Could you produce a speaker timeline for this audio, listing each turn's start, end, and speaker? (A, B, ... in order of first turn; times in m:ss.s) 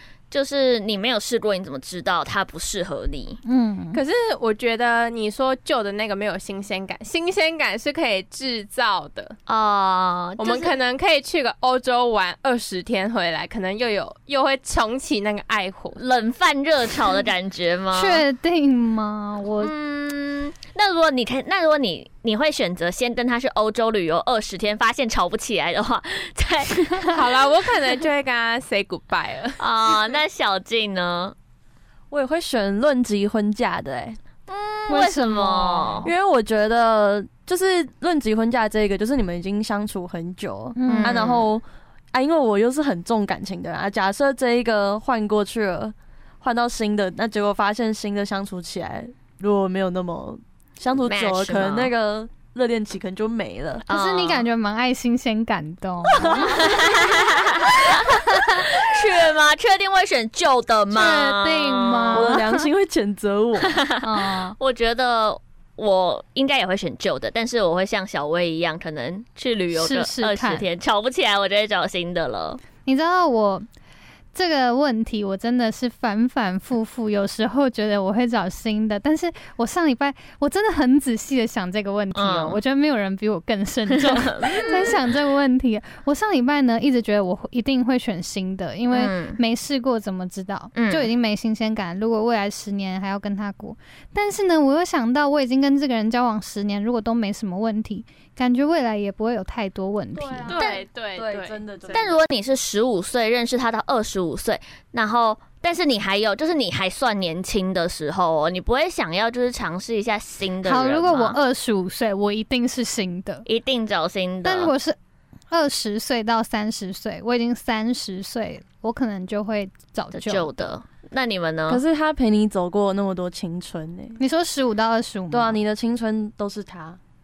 0:00.3-0:03.4 A
0:03.4-0:04.0 B
0:03.9-0:09.4 C
0:09.5-0:10.7 A
0:10.4-0:16.0 C
0:16.0-0:18.2 A
0:17.9-0:19.7 B
0:19.6-0:27.3 A
0:27.0-0:30.2 C
0:29.6-0:31.4 A
0:32.1-0:34.2 D
0:34.5-0:36.1 A
0:34.9-0:36.1 B
0:36.0-0:53.8 D
0:40.8-0:41.2 B
0:40.9-0:41.5 A
0:51.0-0:51.9 A
0:53.9-0:54.4 A
0:53.9-0:56.6 B
0:56.2-1:02.4 A
0:56.2-0:56.7 D
0:58.1-0:58.6 B
1:00.9-1:02.7 B
1:02.1-1:03.8 D
1:03.6-1:12.6 A
1:04.0-1:04.6 B
1:09.7-1:10.6 B
1:12.8-1:13.7 B
1:14.3-1:40.5 B
1:22.2-1:22.6 A
1:24.0-1:24.9 A
1:28.9-1:29.4 A
1:30.7-1:31.1 A
1:40.2-1:42.2 D
1:40.5-1:41.9 C
1:40.5-1:40.8 A
1:41.9-1:51.4 A
1:50.6-1:53.4 B
1:53.4-1:54.7 A
1:54.4-1:55.0 B
1:55.5-2:00.5 B
2:00.1-2:01.8 A
2:01.7-2:04.2 D
2:04.2-2:05.6 B
2:05.3-2:07.0 D